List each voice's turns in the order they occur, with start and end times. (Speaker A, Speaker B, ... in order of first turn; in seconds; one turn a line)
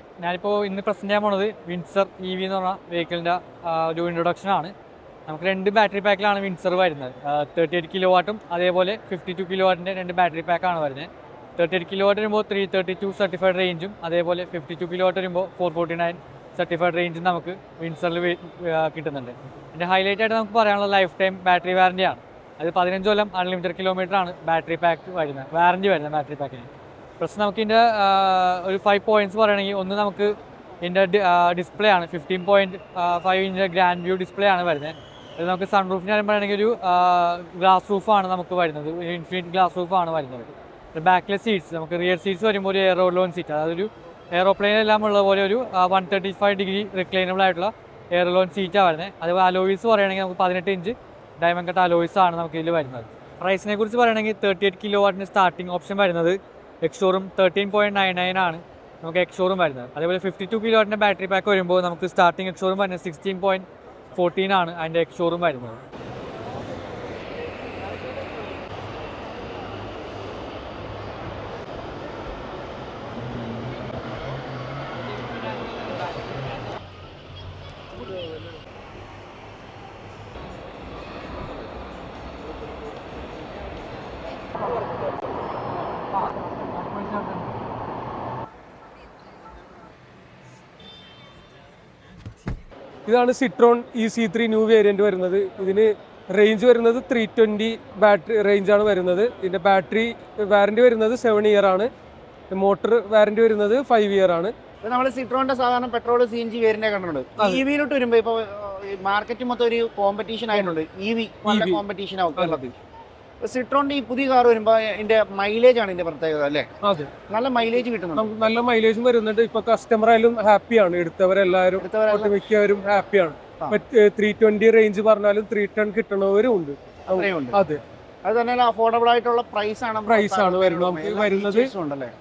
Speaker A: 0.2-4.7
Speaker A: 5.3-26.7
Speaker A: 27.2-30.3
Speaker A: 30.8-65.8
Speaker A: 75.1-76.5
Speaker A: 86.5-87.4
Speaker B: 93.1-101.9
Speaker B: 102.5-104.5
Speaker C: 104.8-112.7
Speaker B: 111.5-111.8
Speaker B: 112.4-112.7
Speaker C: 113.4-116.7
Speaker B: 116.8-117.1
Speaker C: 117.3-118.3
Speaker B: 118.2-127.8
Speaker C: 121.8-122.3
Speaker C: 127.1-127.6
Speaker C: 128.2-132.1
Speaker B: 130.1-131.7